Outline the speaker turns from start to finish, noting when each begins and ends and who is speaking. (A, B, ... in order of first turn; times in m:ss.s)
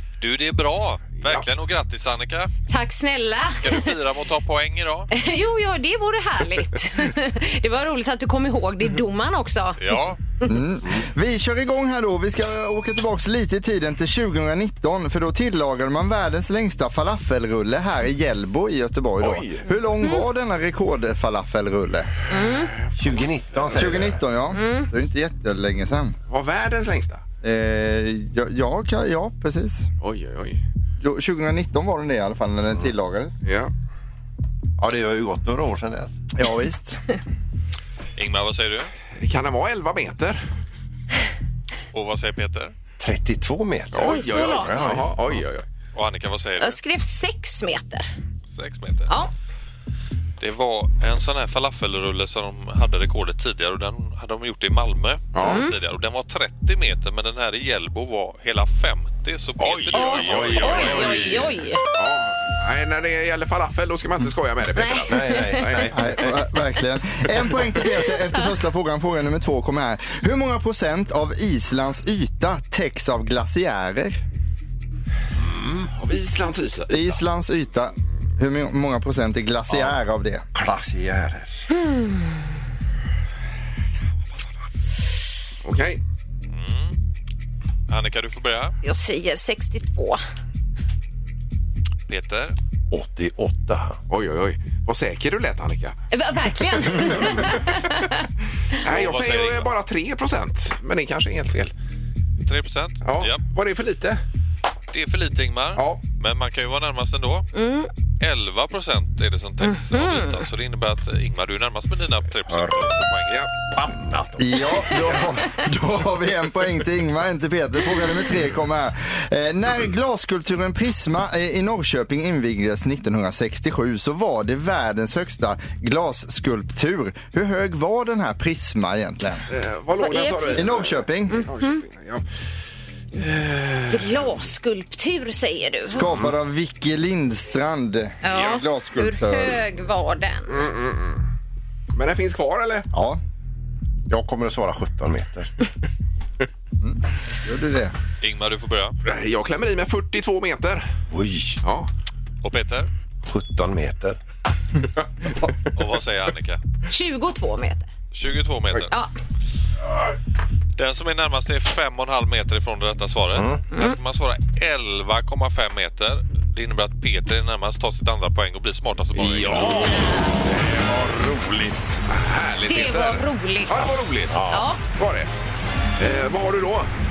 0:00.2-0:02.5 A
0:02.7-0:03.9 B
0:03.6-0:05.1 A
0:05.1-0:10.6 B
0:09.8-0:10.2 A
0:10.4-0:22.1 C
0:19.2-0:19.6 D
0:22.3-0:22.7 B
0:22.9-0:23.3 D
0:23.0-0:24.2 E
0:23.7-0:26.2 C
0:24.5-0:24.9 B
0:26.3-0:27.2 D
0:27.4-0:29.9 C
0:30.0-0:30.6 D
0:31.0-0:33.3 C
0:33.4-0:33.7 D
0:34.8-0:36.1 E
0:36.3-0:37.0 C
0:38.2-0:38.9 A
0:39.2-0:40.4 D
0:41.9-0:42.7 A
0:43.0-0:45.4 E
0:43.9-0:45.6 D
0:44.0-0:44.7 B
0:45.9-0:46.8 A
0:46.6-0:48.0 B
0:48.5-0:49.2 A
0:50.4-1:01.5 A
0:55.3-0:55.6 D
0:55.4-0:55.7 B
0:59.6-1:01.4 D
0:59.9-1:01.8 B
1:00.3-1:01.3 E
1:01.9-1:06.1 D
1:04.8-1:05.7 B
1:05.1-1:06.3 E
1:05.9-1:14.2 C
1:07.8-1:08.5 B
1:15.4-1:15.9 E
1:15.9-1:17.1 D
1:16.9-1:20.4 C
1:20.5-1:21.6 E
1:25.6-1:26.0 D
1:26.5-1:26.9 A
1:27.9-1:28.7 A
1:28.8-1:30.2 B
1:32.1-1:32.6 A
1:32.9-1:34.0 E
1:34.1-1:36.0 D
1:36.1-1:38.2 B
1:38.8-1:41.7 D
1:38.8-1:39.7 A
1:42.4-1:43.4 A
1:43.0-1:44.2 D
1:44.9-1:47.5 A
1:45.8-1:46.0 D
1:47.5-1:47.9 B
1:48.2-1:53.4 A
1:49.6-1:50.3 B
1:52.5-1:52.9 E
1:53.7-1:54.9 E
1:54.4-2:09.5 C
2:09.5-2:12.2 D
2:10.0-2:10.7 B
2:10.5-2:11.4 C
2:11.3-2:11.8 B
2:13.1-2:14.1 D
2:13.9-2:16.0 B
2:15.9-2:19.6 C
2:18.2-2:20.6 B
2:20.5-2:21.2 D
2:21.9-2:22.9 D
2:22.9-2:23.2 C
2:24.1-2:25.5 E
2:26.8-2:27.9 C
2:28.2-2:28.9 A
2:29.0-2:30.8 D
2:31.1-2:31.6 E
2:31.6-2:31.9 D
2:32.4-2:32.9 A
2:33.2-2:34.2 E
2:35.7-2:36.6 A
2:36.9-2:37.9 B
2:38.1-2:38.9 A
2:40.8-2:50.2 A
2:43.3-2:43.6 E
2:49.2-2:50.2 D
2:49.8-2:50.0 E
2:51.0-2:51.5 E
2:52.1-2:55.3 D
2:52.7-2:54.8 B
2:54.3-2:54.7 E
2:56.0-2:56.9 D